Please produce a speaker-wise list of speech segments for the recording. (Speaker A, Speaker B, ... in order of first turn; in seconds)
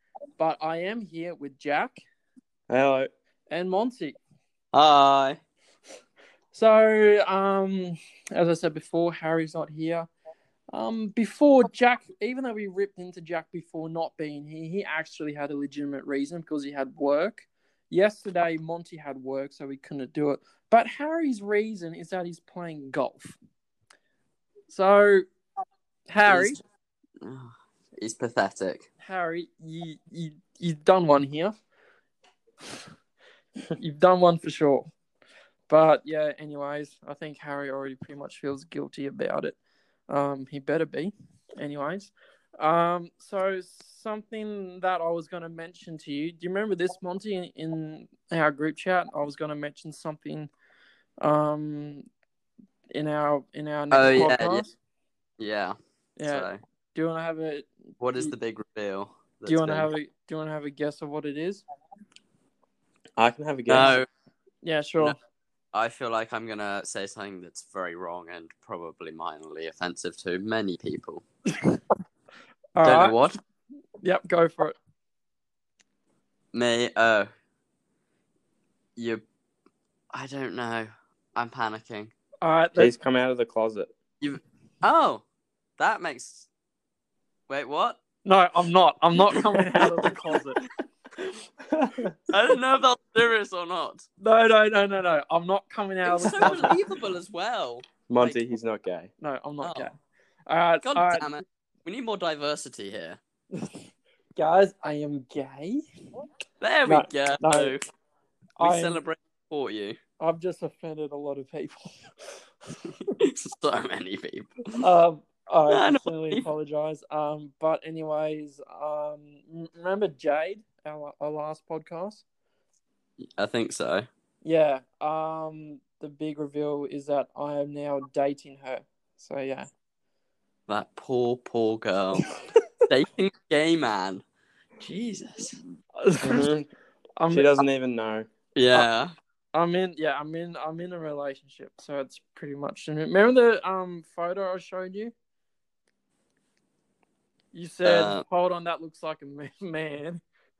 Speaker A: 0.4-2.0, 3.5-4.2, 6.5-10.1, 10.7-23.4, 24.7-25.2, 26.1-26.6, 29.0-31.6, 33.8-34.9, 35.7-39.6, 40.1-50.5, 51.2-52.0, 52.9-54.7, 56.2-58.3, 59.5-61.6, 64.6-65.1, 72.8-73.2, 74.0-74.7, 82.4-82.9, 88.2-90.6, 94.2-96.8, 99.2-100.0, 100.5-101.3, 104.3-105.8, 106.8-107.7, 108.6-109.0, 110.2-112.4, 114.8-122.2, 124.4-129.7, 136.0-136.4, 137.2-137.5, 139.5-145.1, 147.5-150.2
Speaker B: 2.7-3.1, 63.2-64.0, 82.8-83.9, 98.1-99.1, 136.2-136.7, 137.3-138.3
Speaker C: 4.7-5.4, 26.2-26.6, 27.2-28.9, 53.9-54.6, 55.4-56.6, 58.0-59.9, 63.7-64.1, 65.7-71.2, 72.8-73.4, 76.5-77.3, 79.0-79.2, 80.1-82.1, 84.2-85.2, 85.8-86.5, 87.5-88.0, 89.6-90.1, 92.3-94.0, 96.0-98.4, 99.6-99.9, 100.8-103.2, 106.6-107.8, 108.6-110.0, 113.2-114.8, 115.7-116.4, 123.2-124.1, 130.7-132.3, 132.9-134.2, 134.8-135.5, 138.6-139.1, 147.8-148.2